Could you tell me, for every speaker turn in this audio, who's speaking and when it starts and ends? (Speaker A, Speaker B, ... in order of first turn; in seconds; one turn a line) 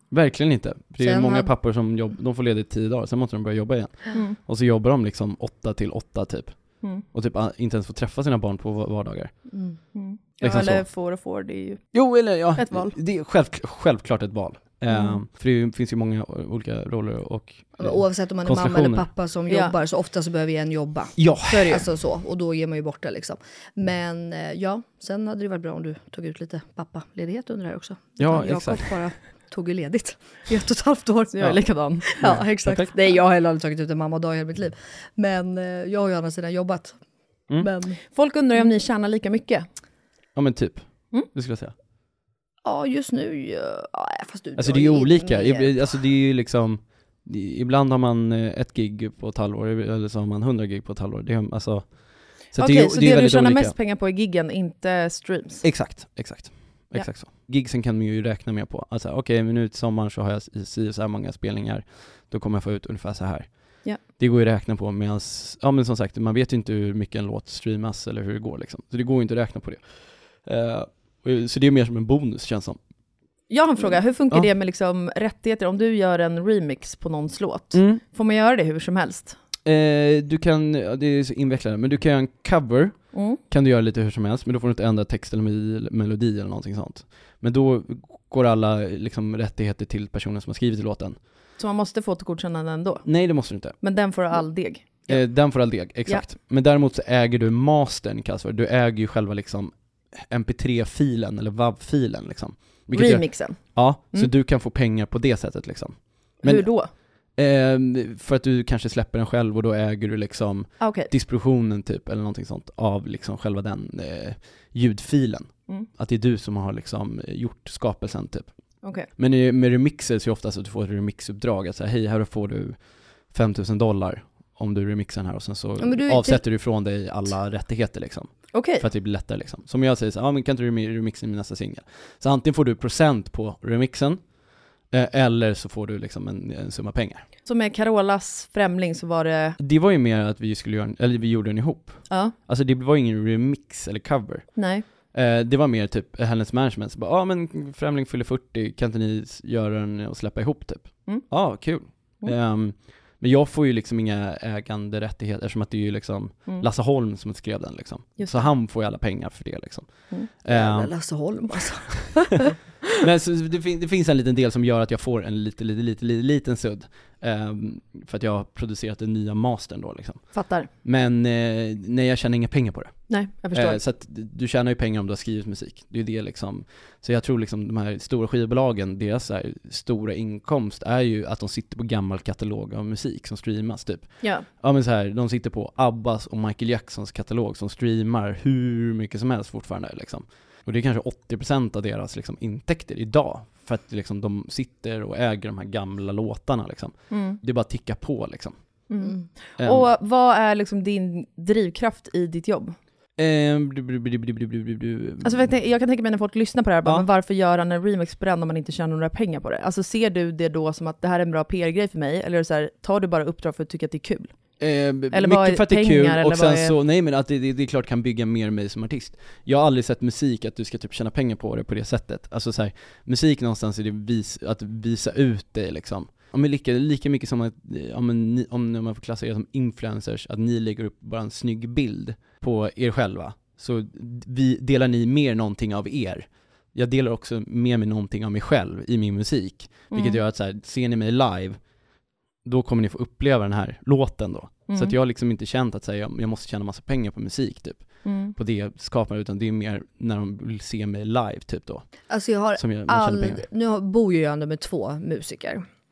Speaker A: 0.1-10.9
Speaker B: 1.0-1.5
Speaker B: 9.5-9.8
Speaker C: 9.9-13.0
Speaker A: 11.9-19.1
Speaker C: 14.9-15.2
Speaker B: 17.8-38.0
Speaker C: 19.5-19.7
Speaker A: 21.2-21.7
Speaker C: 21.5-21.8
Speaker A: 28.2-29.1
Speaker C: 31.3-32.2
Speaker A: 31.4-32.9
Speaker C: 38.1-39.6
Speaker A: 40.3-41.7
Speaker B: 42.6-46.0
Speaker A: 44.5-53.7
Speaker C: 52.5-56.2
Speaker A: 55.6-72.8
Speaker C: 73.5-79.4
Speaker A: 77.7-78.0
Speaker A: 79.6-91.3
Speaker C: 83.1-83.4
Speaker C: 91.6-96.3
Speaker A: 93.0-94.3
Speaker A: 95.1-137.3
Speaker C: 102.9-104.3
Speaker C: 106.4-106.9
Speaker C: 110.8-111.1
Speaker C: 118.8-119.1
Speaker B: 125.8-127.3
Speaker C: 128.5-128.8
Speaker C: 137.4-139.6
Speaker A: 139.6-161.4
Speaker C: 142.1-142.3
Speaker C: 144.5-144.8
Speaker C: 151.1-152.3
Speaker C: 158.2-158.5
Speaker B: 160.4-162.5
Speaker A: 163.0-198.9
Speaker C: 170.3-170.7
Speaker C: 173.1-173.8
Speaker C: 184.2-184.5
Speaker C: 197.1-197.4
Speaker C: 198.9-202.8
Speaker B: 199.0-199.3
Speaker A: 199.6-199.9
Speaker A: 203.2-205.6
Speaker C: 205.2-214.5
Speaker A: 214.6-253.4
Speaker C: 215.1-216.7
Speaker C: 239.9-240.2
Speaker C: 244.7-244.9
Speaker C: 248.0-248.3
Speaker B: 252.1-255.7